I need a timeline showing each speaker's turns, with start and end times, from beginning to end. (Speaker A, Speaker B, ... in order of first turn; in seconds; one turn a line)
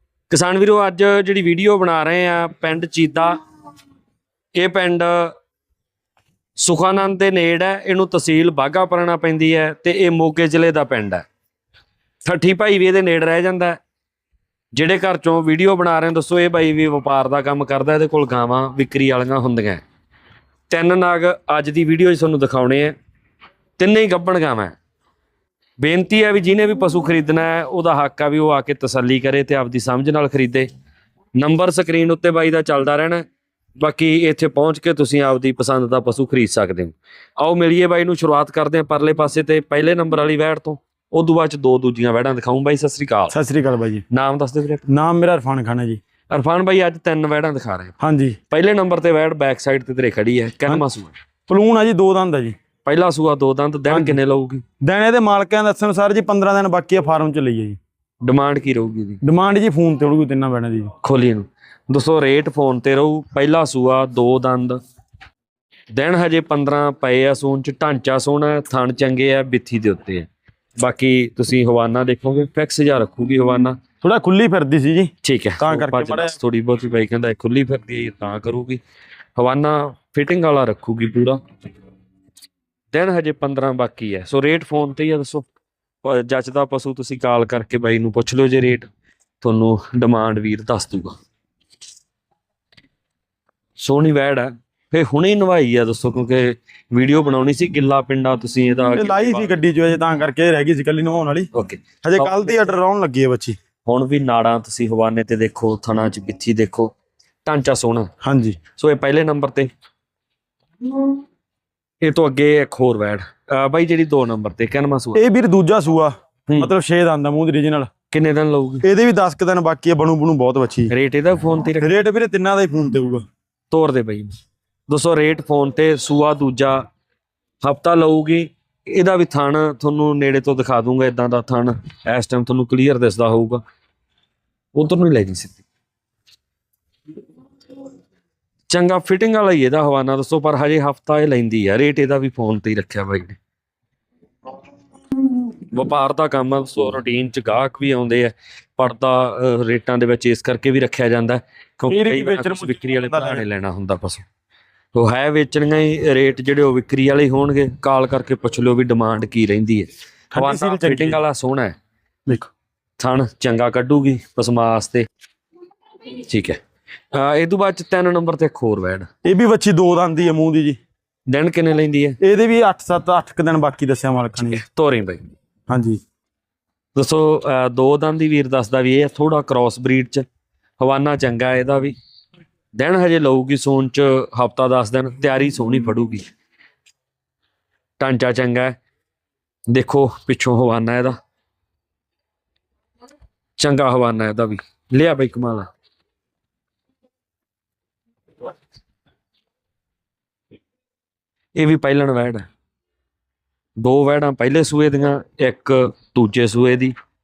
Speaker A: 0.3-3.4
Speaker A: 4.6-5.3
Speaker A: 6.6-11.2
Speaker A: 12.2-13.8
Speaker A: 14.7-19.8
Speaker A: 20.7-22.9
Speaker A: 23.8-24.8
Speaker A: 25.8-30.7
Speaker A: 31.4-33.2
Speaker A: 33.8-43.4
Speaker B: 43.3-44.0
Speaker A: 44.1-44.8
Speaker B: 44.9-46.0
Speaker A: 46.3-47.9
Speaker B: 48.0-48.4
Speaker A: 48.5-51.1
Speaker B: 51.5-52.6
Speaker A: 52.8-54.6
Speaker B: 53.9-54.2
Speaker B: 54.8-57.8
Speaker A: 58.2-59.2
Speaker B: 59.2-60.9
Speaker A: 61.0-64.8
Speaker A: 65.9-70.3
Speaker A: 70.8-73.8
Speaker B: 74.0-76.4
Speaker A: 75.2-78.8
Speaker A: 79.4-81.4
Speaker A: 82.9-85.5
Speaker A: 86.0-88.9
Speaker A: 89.4-91.2
Speaker A: 93.8-99.6
Speaker B: 99.0-101.5
Speaker A: 101.5-102.5
Speaker B: 102.0-103.6
Speaker A: 103.9-106.9
Speaker A: 107.5-108.1
Speaker B: 108.2-108.6
Speaker A: 108.8-109.7
Speaker A: 112.0-115.2
Speaker B: 115.2-117.9
Speaker A: 118.1-118.8
Speaker B: 118.8-120.9
Speaker A: 120.9-121.9
Speaker B: 121.8-123.2
Speaker A: 123.7-124.3
Speaker A: 124.9-126.8
Speaker A: 127.6-133.6
Speaker A: 134.8-135.6
Speaker A: 138.7-143.4
Speaker A: 145.7-154.2
Speaker B: 151.9-153.4
Speaker A: 154.9-161.8
Speaker B: 160.3-161.2
Speaker A: 163.0-165.1
Speaker A: 166.2-166.6
Speaker A: 167.1-169.1
Speaker B: 169.2-170.8
Speaker A: 171.3-172.2
Speaker B: 172.2-174.6
Speaker A: 174.4-175.2
Speaker B: 175.7-176.0
Speaker A: 176.9-180.3
Speaker A: 180.8-182.0
Speaker A: 182.8-186.2
Speaker A: 188.0-188.8
Speaker A: 189.7-191.2
Speaker A: 193.6-195.7
Speaker A: 201.6-202.5
Speaker A: 203.8-206.9